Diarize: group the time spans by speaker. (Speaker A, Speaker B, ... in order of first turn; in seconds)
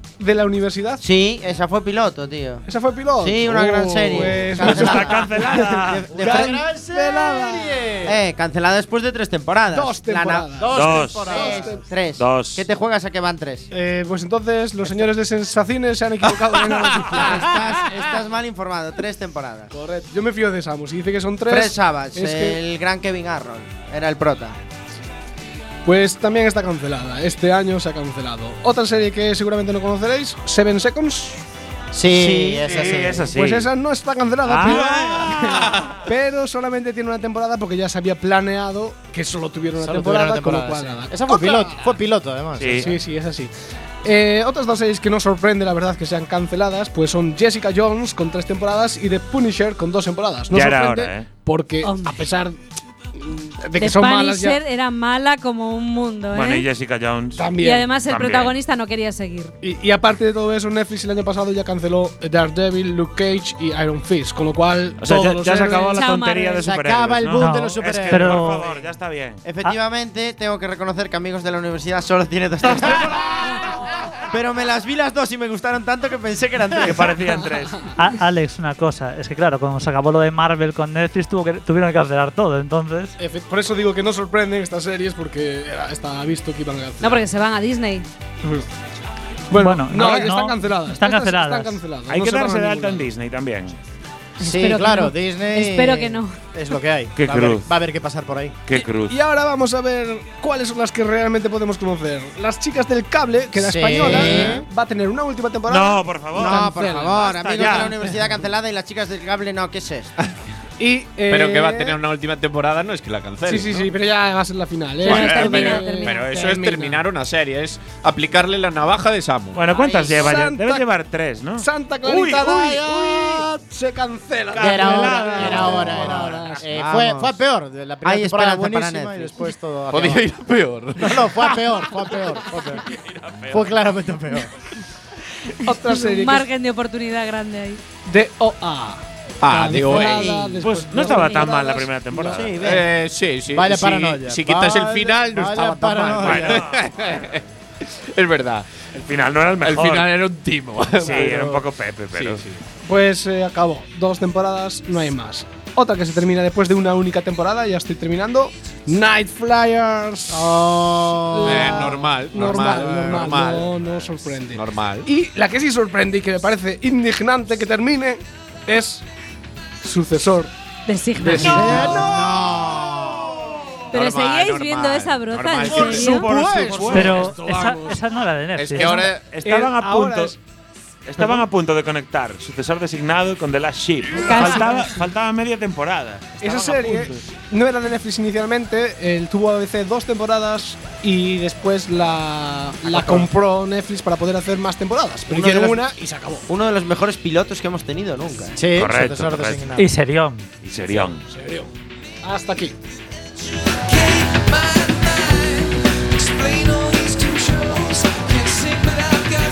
Speaker A: 0.2-1.0, 2.7-7.8, 9.7-11.8, 13.7-17.6, 19.7-22.6, 25.8-31.4, 33.3-41.9, 42.8-43.5, 44.0-52.6, 53.1-54.6, 57.4-57.9, 59.6-66.0, 83.2-87.2, 89.5-93.1, 99.0-107.8, 110.8-112.0, 113.5-117.0, 120.1-120.8, 121.6-126.7, 135.6-136.5, 138.1-142.5, 152.8-160.6, 161.2-169.0, 169.8-170.5, 171.2-172.3, 175.9-178.0, 178.8-180.4, 181.2-181.4, 184.2-184.9, 186.4-196.4, 200.9-201.7, 202.2-202.7, 206.4-207.2
Speaker B: 1.0-2.6, 3.2-6.6, 8.1-13.7, 17.0-19.7, 21.5-24.6, 32.1-33.2, 69.4-73.5, 74.3-77.1, 104.0-104.6, 106.3-110.1, 119.7-120.3, 126.6-127.4, 128.0-129.4, 142.2-142.8, 195.3-195.8, 196.5-198.6
Speaker C: 4.5-6.1, 10.7-11.5, 12.2-12.6, 32.6-33.7, 34.5-35.7, 42.6-42.9, 50.5-51.3, 56.3-57.4, 58.0-58.5, 65.0-69.4, 76.8-77.8, 92.1-93.8, 97.2-97.7, 98.7-99.1, 105.7-108.0, 119.5-123.4, 124.5-126.4, 140.6-142.7, 146.2-146.8, 148.9-150.1, 151.0-152.4, 175.8-177.3, 179.0-180.3, 181.1-187.2, 198.8-199.7, 200.6-201.2
Speaker D: 6.1-8.2, 10.6-11.7, 31.9-33.3, 34.7-35.2, 39.8-42.9, 66.6-68.6, 94.4-98.5, 103.5-104.6, 124.6-130.3, 131.0-132.8, 133.5-134.5, 143.5-146.7, 151.2-151.5, 160.3-162.0, 171.4-173.4, 175.7-177.2, 198.6-199.8
Speaker E: 51.8-52.2, 53.8-56.6, 57.6-59.5, 65.9-66.6, 87.0-88.0, 94.4-96.4, 115.0-116.2, 135.6-137.8, 170.9-172.1, 173.9-176.3, 184.2-184.8
Speaker F: 67.3-68.7, 78.0-83.1, 89.5-91.8, 176.9-179.1, 199.8-200.5
Speaker G: 111.3-113.9, 115.0-119.7, 129.9-131.3, 139.4-140.4, 142.6-148.7, 149.6-151.4, 152.1-152.6, 161.4-165.1, 173.9-176.5, 178.6-179.3